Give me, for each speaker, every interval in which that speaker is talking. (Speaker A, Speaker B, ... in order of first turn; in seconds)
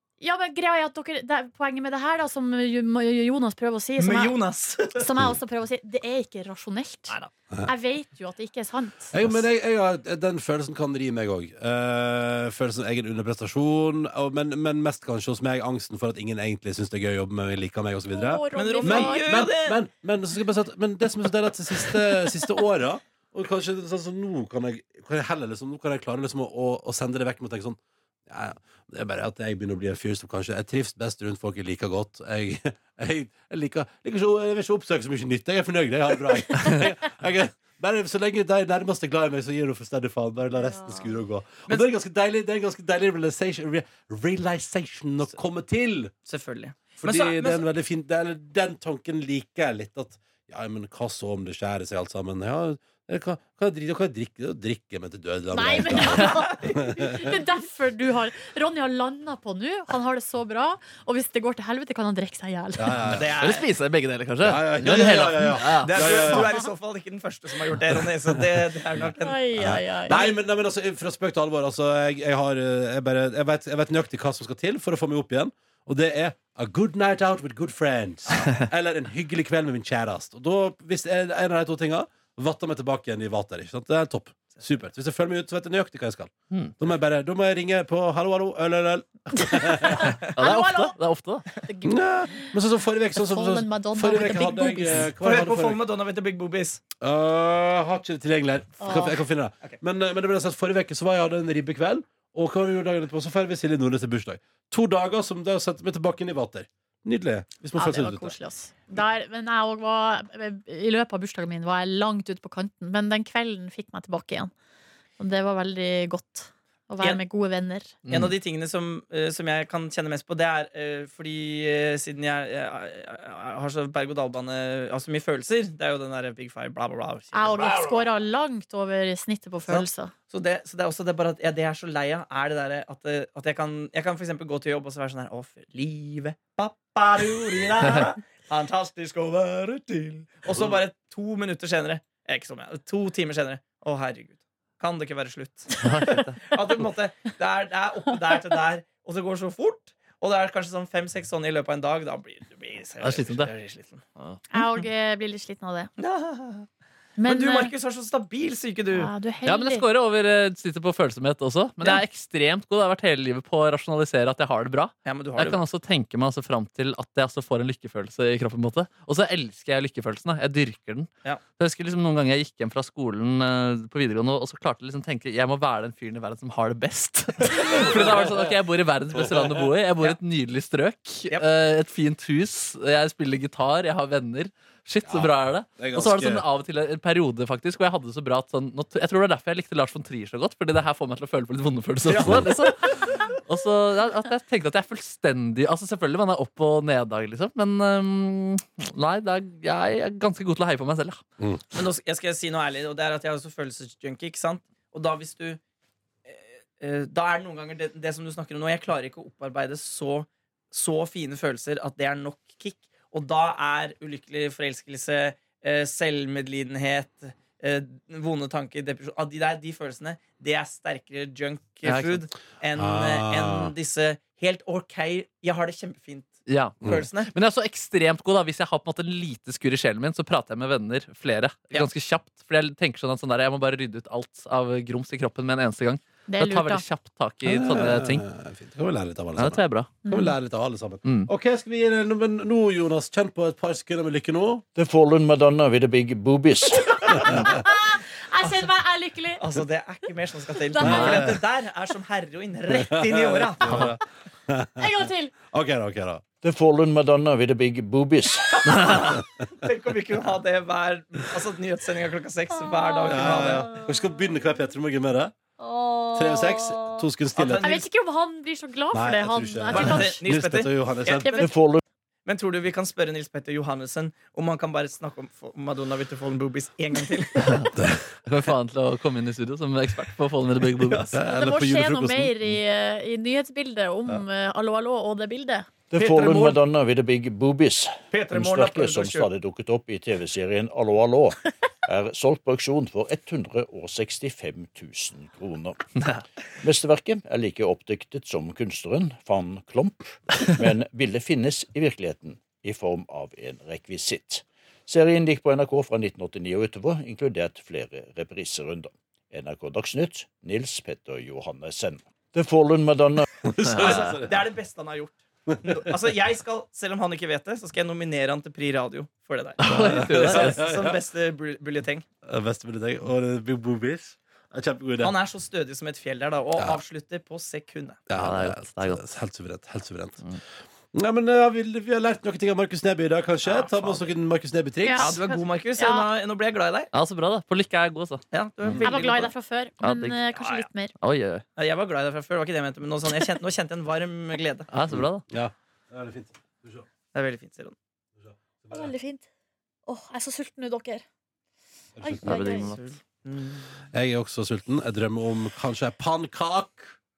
Speaker A: 0.2-4.4, 5.0-7.2, 7.7-9.4, 18.1-19.3, 55.5-63.0, 69.2-70.3, 89.4-91.0, 91.6-92.5, 93.2-95.1, 98.8-99.2, 107.8-114.5, 115.2-118.0, 127.3-130.1, 154.5-155.9, 157.2-157.7, 158.9-159.8, 236.3-236.8, 240.1-240.3, 246.7-249.4, 250.6-251.2, 254.8-255.3, 262.6-263.8, 265.6-267.0, 267.6-270.2, 281.2-285.7, 334.8-336.1, 338.8-340.9, 348.7-349.3, 349.9-351.0, 352.0-352.7
Speaker B: 4.0-5.1, 18.6-19.8, 46.3-47.6, 56.2-57.2, 63.1-63.7, 65.8-69.5, 95.2-96.8, 118.1-128.1, 129.7-145.8, 146.5-154.0, 156.0-156.7, 157.3-159.1, 165.1-165.6, 192.1-192.7, 201.7-205.6, 206.3-227.3, 249.4-253.9, 258.6-263.8, 267.4-267.9, 269.7-271.5, 272.3-277.7, 286.0-286.6, 288.1-289.3, 313.8-322.1, 325.0-328.0, 333.4-334.1, 335.0-336.9, 338.3-339.3, 340.4-340.6, 341.6-344.7, 347.1-347.8, 352.7-353.8
Speaker C: 9.1-46.1, 47.0-57.3, 62.8-63.3, 64.4-66.5, 67.9-68.6, 69.5-90.1, 91.8-95.8, 97.0-108.3, 177.5-178.5, 179.1-179.7, 185.1-186.4, 192.2-192.5, 222.8-223.7, 237.4-244.6, 247.1-247.6, 250.8-251.4, 252.7-256.2, 263.1-265.4, 266.1-267.7, 268.9-271.4, 277.8-278.0, 281.1-282.5, 313.4-314.5, 315.5-315.9, 319.6-321.0, 322.2-325.2, 328.1-330.2, 330.9-335.2, 344.9-346.9, 348.2-348.9, 352.0-352.5, 353.9-357.0
Speaker D: 63.4-66.2, 90.3-91.5, 118.0-118.3, 145.8-146.6, 153.0-153.5, 159.5-201.2, 221.8-222.2, 226.5-238.3, 239.4-239.9, 241.1-241.3, 250.8-251.3, 258.7-259.0, 278.3-281.1, 296.0-296.2, 313.7-314.1, 319.6-320.7, 328.1-329.1, 336.9-338.2, 339.8-340.2, 341.0-341.4, 344.7-345.2, 352.2-352.8
Speaker E: 244.8-247.0, 256.4-258.7, 271.4-271.8, 285.9-295.8, 296.6-313.3